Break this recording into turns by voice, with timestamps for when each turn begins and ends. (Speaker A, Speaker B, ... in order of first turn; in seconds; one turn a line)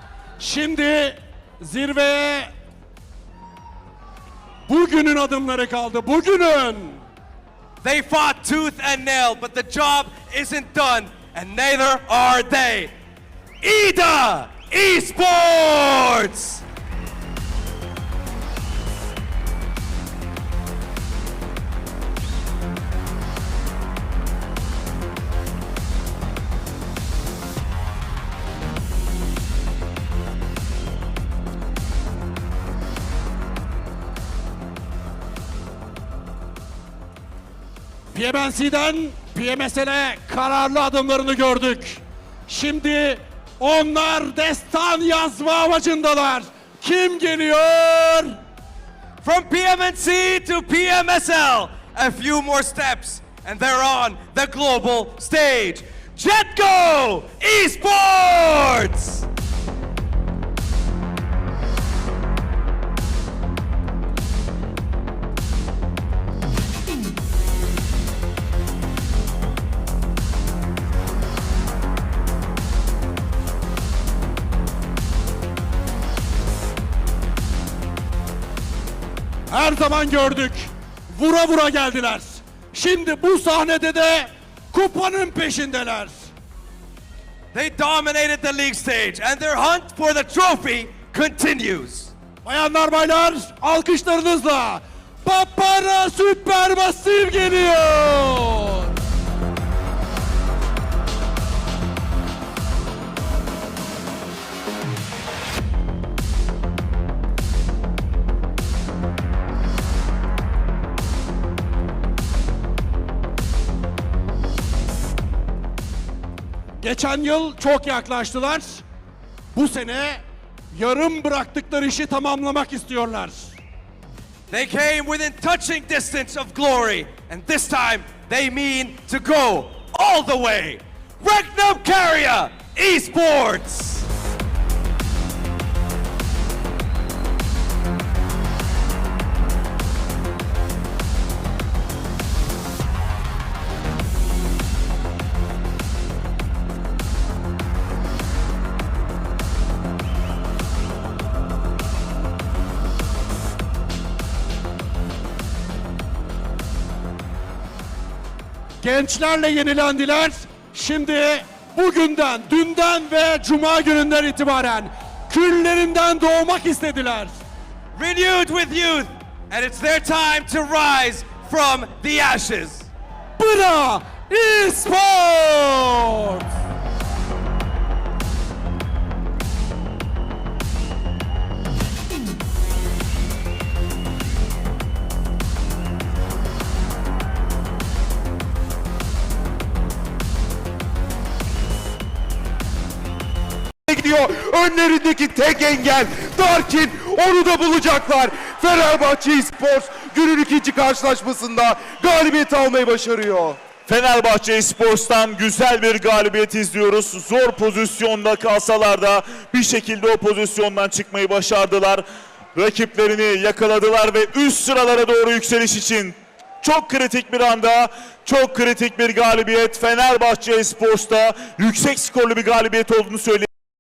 Speaker A: 0.4-2.5
Speaker A: 4.7-7.0
Speaker B: 7.8-12.9
Speaker B: 13.6-16.6
Speaker A: 38.1-48.4
Speaker B: 49.2-59.3
Speaker A: 79.5-86.2
Speaker B: 87.5-92.1
Speaker A: 92.4-98.9
Speaker A: 116.8-118.8
Speaker A: 119.5-120.2
Speaker A: 120.7-123.6
Speaker B: 124.5-134.1
Speaker A: 158.8-167.4
Speaker B: 167.9-172.9
Speaker A: 173.4-176.5
Speaker C: 193.9-203.6
Speaker D: 203.9-223.5